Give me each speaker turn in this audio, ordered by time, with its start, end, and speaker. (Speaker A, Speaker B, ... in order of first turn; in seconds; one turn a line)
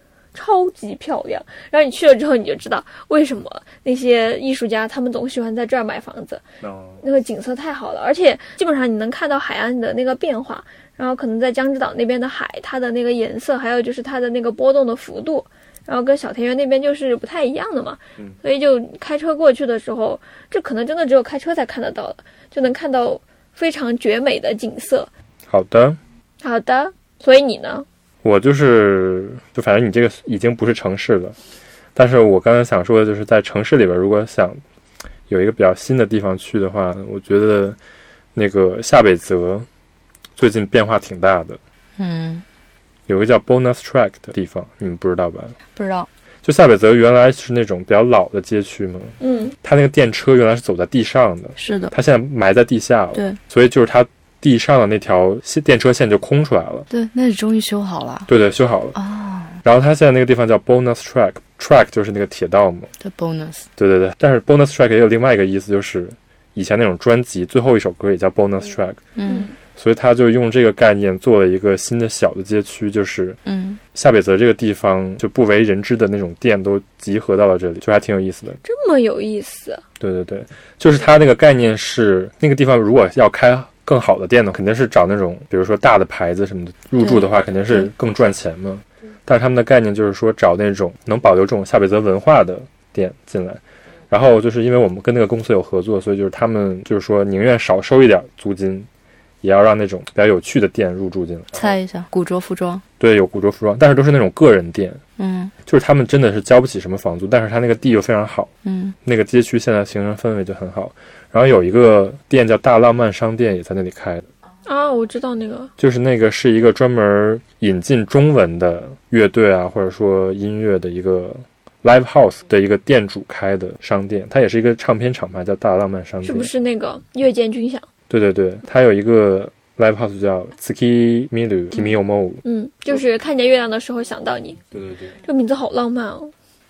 Speaker A: 0.3-6.4
Speaker B: 6.6-7.0
Speaker A: 7.0-25.1
Speaker B: 25.5-26.0
Speaker A: 26.4-27.9
Speaker B: 28.2-31.4
Speaker B: 31.9-34.6
Speaker B: 35.3-37.8
Speaker B: 38.4-39.7
Speaker B: 40.4-41.6
Speaker C: 42.0-42.5
Speaker B: 43.1-45.6
Speaker C: 45.7-46.1
Speaker B: 46.4-56.9
Speaker A: 49.2-49.5
Speaker C: 51.6-51.9
Speaker C: 56.9-58.3
Speaker B: 58.3-59.0
Speaker C: 59.0-59.6
Speaker B: 59.6-62.9
Speaker C: 63.0-63.7
Speaker B: 63.8-69.0
Speaker C: 69.2-69.5
Speaker A: 69.3-69.5
Speaker B: 69.7-73.4
Speaker C: 73.5-73.8
Speaker B: 73.9-78.6
Speaker A: 78.6-79.8
Speaker B: 80.0-98.9
Speaker C: 87.0-87.9
Speaker B: 99.4-101.8
Speaker C: 101.5-102.8
Speaker B: 103.0-105.0
Speaker C: 105.2-105.5
Speaker B: 105.7-108.5
Speaker C: 108.6-109.0
Speaker B: 109.0-114.3
Speaker A: 114.7-115.7
Speaker B: 115.8-126.5
Speaker A: 126.2-127.8
Speaker B: 128.1-132.4
Speaker A: 131.7-134.6
Speaker B: 134.7-135.2
Speaker A: 135.2-136.3